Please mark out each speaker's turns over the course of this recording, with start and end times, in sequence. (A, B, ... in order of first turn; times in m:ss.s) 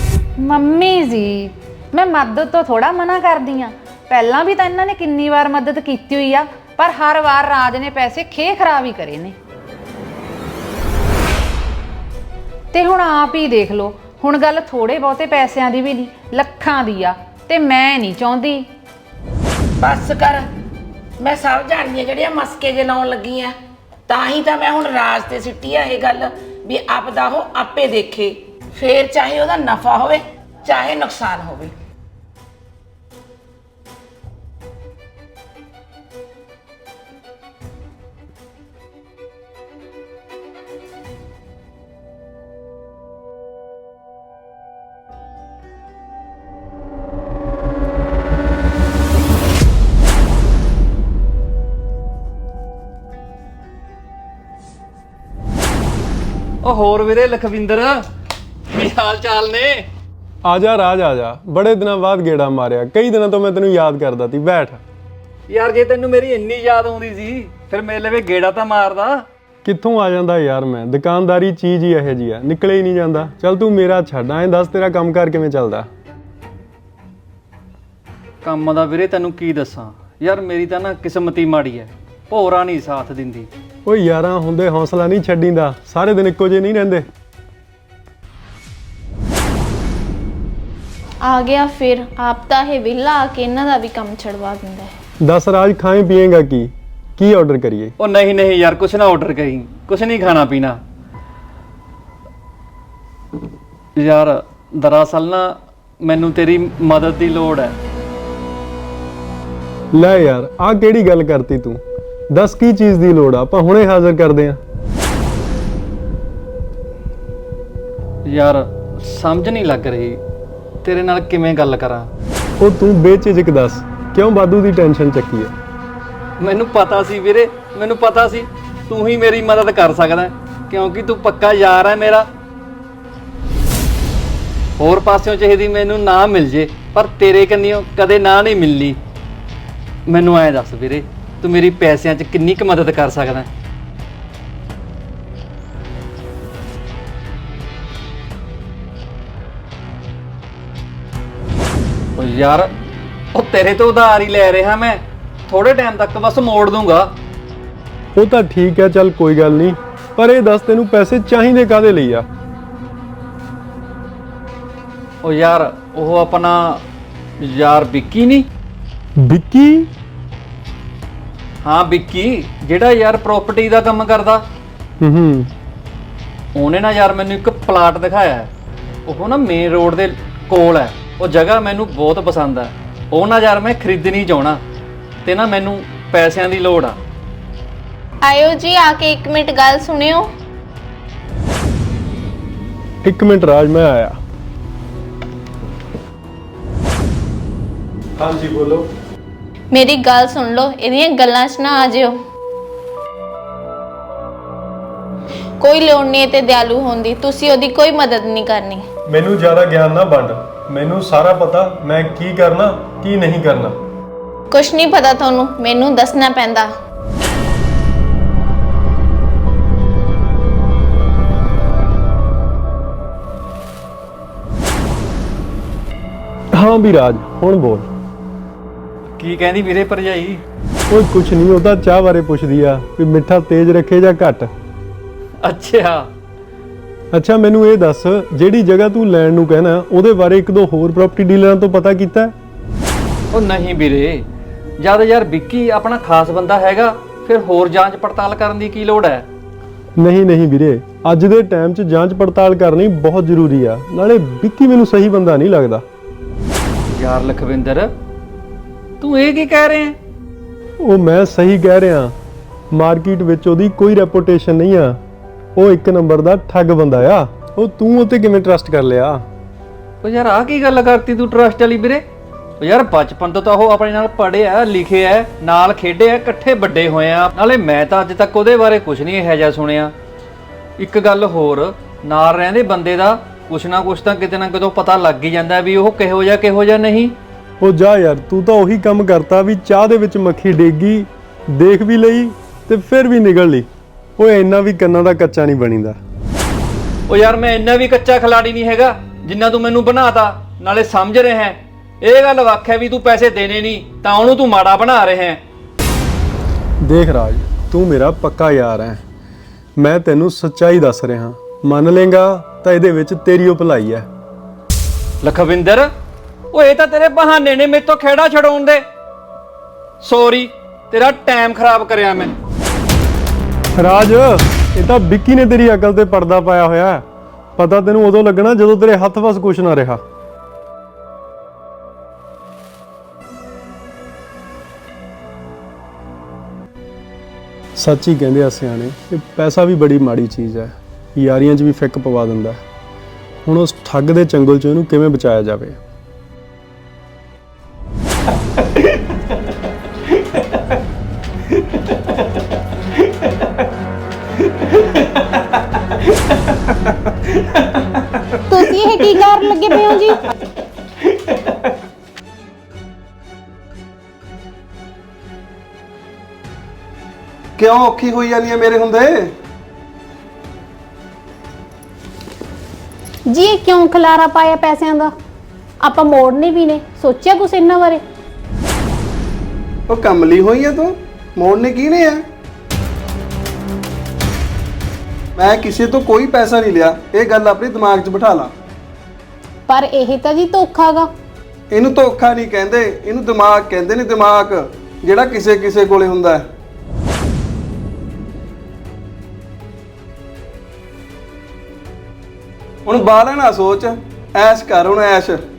0:00.4-0:09.3 A
0:12.7-0:18.7 A
0:19.8-0:20.4 B
0:21.2-0:23.5 B
0:24.1-0:31.7 B
0:56.6-0:58.1 C
0:58.7-0:59.9 C
1:00.4-1:04.8 D
1:05.5-1:09.3 C
1:09.6-1:15.9 D
1:18.4-1:23.5 C
1:23.8-1:27.1 D
1:31.2-1:34.9 E
1:35.2-1:37.9 D
1:38.0-1:40.8 C
1:44.0-1:47.8 C
1:49.9-1:51.8 D
1:52.3-1:54.6 D
1:58.2-2:00.2 C
2:00.8-2:02.1 C
2:02.6-2:05.5 D
2:06.4-2:12.3 C
2:14.8-2:19.0 C
2:20.1-2:23.5 C
2:32.2-2:32.7 C
2:33.3-2:37.1 C
2:38.2-2:42.2 D
2:45.2-2:46.8 C
2:47.4-2:48.5 C
2:49.2-2:49.9 D
2:51.6-2:54.4 C
2:55.0-2:55.5 D
2:56.5-2:58.5 C
2:59.0-3:04.6 C
3:05.2-3:07.0 C
3:08.2-3:10.3 E
3:13.0-3:14.2 D
3:18.2-3:18.9 D
3:19.7-3:22.2 E
3:25.6-3:28.8 E
3:29.1-3:33.7 D
3:34.5-3:36.7 E
3:46.5-3:47.9 D
3:49.2-3:50.4 C
3:50.9-3:54.5 D
3:55.4-3:56.1 C
3:57.1-4:02.3 D
4:03.3-4:04.3 C
4:04.8-4:09.3 C
4:10.0-4:15.8 D
4:16.9-4:17.9 C
4:19.0-4:20.0 C
4:20.8-4:22.1 D
4:22.7-4:25.0 D
4:25.6-4:29.2 D
4:30.0-4:32.0 C
4:32.6-4:39.9 C
4:40.8-4:47.2 C
4:47.6-4:53.7 D
4:54.2-4:56.0 D
4:57.1-5:05.4 C
5:06.8-5:09.0 D
5:09.8-5:14.0 D
5:15.2-5:15.9 C
5:16.5-5:18.8 C
5:20.0-5:22.3 C
5:23.8-5:27.0 D
5:27.6-5:30.0 D
5:37.8-5:42.6 D
5:43.4-5:45.8 D
5:58.5-6:00.2 F
5:58.6-5:59.9 G
6:07.6-6:09.3 G
6:13.3-6:15.1 F
6:15.8-6:18.0 F
6:19.9-6:22.2 G
6:25.4-6:28.5 G
6:29.7-6:31.0 F
6:31.7-6:36.4 G
6:42.8-6:45.4 G